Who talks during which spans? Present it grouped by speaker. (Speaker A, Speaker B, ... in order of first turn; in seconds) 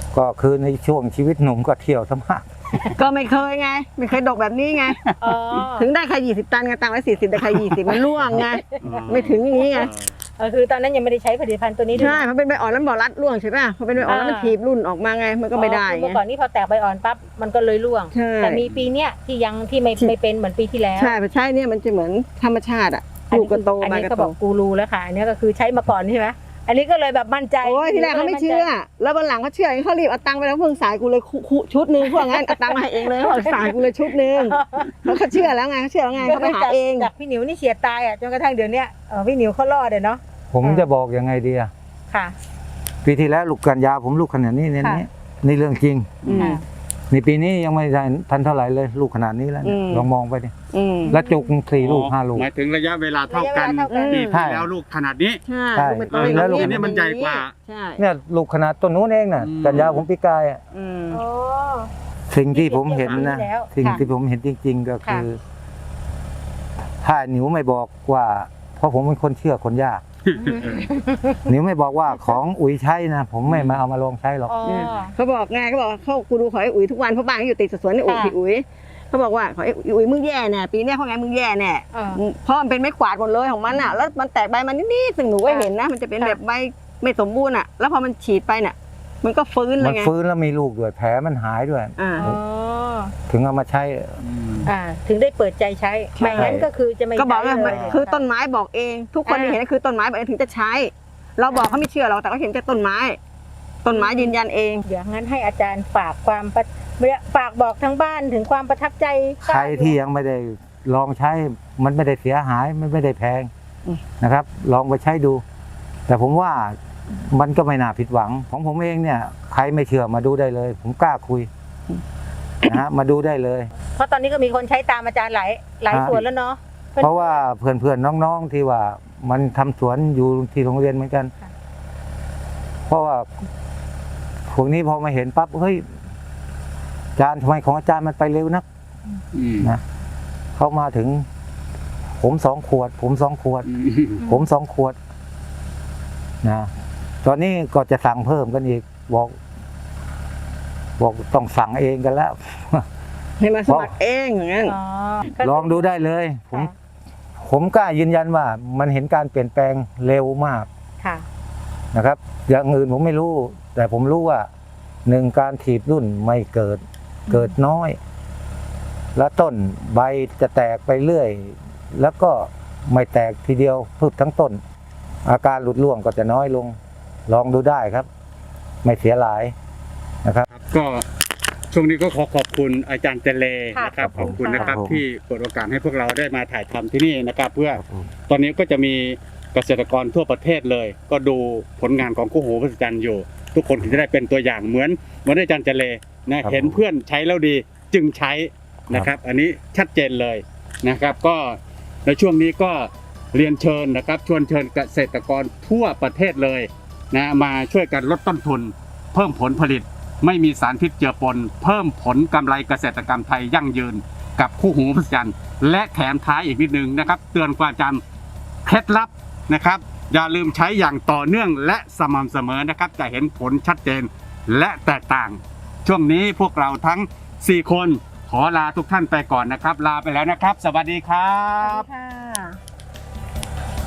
Speaker A: 0.1-2.8, 40.5-41.7, 43.0-46.2, 47.1-50.5, 51.1-52.5, 54.3-54.7, 55.7-56.9, 58.0-60.6, 62.3-65.4, 67.0-70.0, 71.5-74.6, 89.8-92.4, 93.3-94.2, 96.3-96.6, 109.4-113.5, 114.2-115.4, 116.1-121.5, 122.7-123.7, 125.9-126.2, 127.0-131.3, 132.9-133.3, 134.5-135.9, 137.2-138.6, 140.6-141.3, 142.2-143.7, 144.2-144.9, 146.4-146.7, 147.2-149.4, 151.0-152.8, 153.7-153.9, 155.4-156.7, 157.4-160.7, 161.9-164.5, 165.1-168.0, 169.1-174.6, 175.2-178.1, 178.8-179.5, 184.0-185.0, 187.8-188.1, 196.4-196.8
Speaker B: 2.9-5.0, 5.7-9.9, 11.9-16.2, 18.1-18.6, 20.9-24.4, 27.6-37.1, 46.2-46.6, 49.6-50.1, 50.7-51.1, 53.9-54.4, 55.5-58.0, 59.7-60.0, 60.7-61.2, 74.7-90.1, 92.0-92.3, 96.2-96.6, 97.2-103.2, 103.8-104.8, 153.4-154.8
Speaker C: 4.9-5.1, 7.4-10.1, 18.6-18.9, 46.2-46.5, 51.8-55.4, 56.1-57.5, 59.4-60.1, 70.3-70.9, 73.5-73.8, 94.2-94.7, 97.6-98.0, 139.3-139.7, 143.7-144.2, 180.5-181.0, 181.7-218.0, 218.6-231.9
Speaker D: 5.2-5.9, 8.8-9.8, 10.4-12.2, 14.1-14.6, 15.5-21.2, 23.3-28.7, 32.0-35.2, 36.1-40.9, 46.4-46.6, 51.0-51.5, 53.3-54.2, 61.1-61.9, 62.5-64.0, 70.3-71.4, 74.5-75.1, 78.0-78.3, 81.9-82.2, 85.4-86.4, 92.2-93.1, 94.6-98.2, 99.2-99.6, 101.5-101.8, 103.9-104.3, 104.8-110.0, 123.9-127.4, 144.2-144.5, 154.7-156.0, 167.3-167.5, 183.7-184.7, 231.6-232.5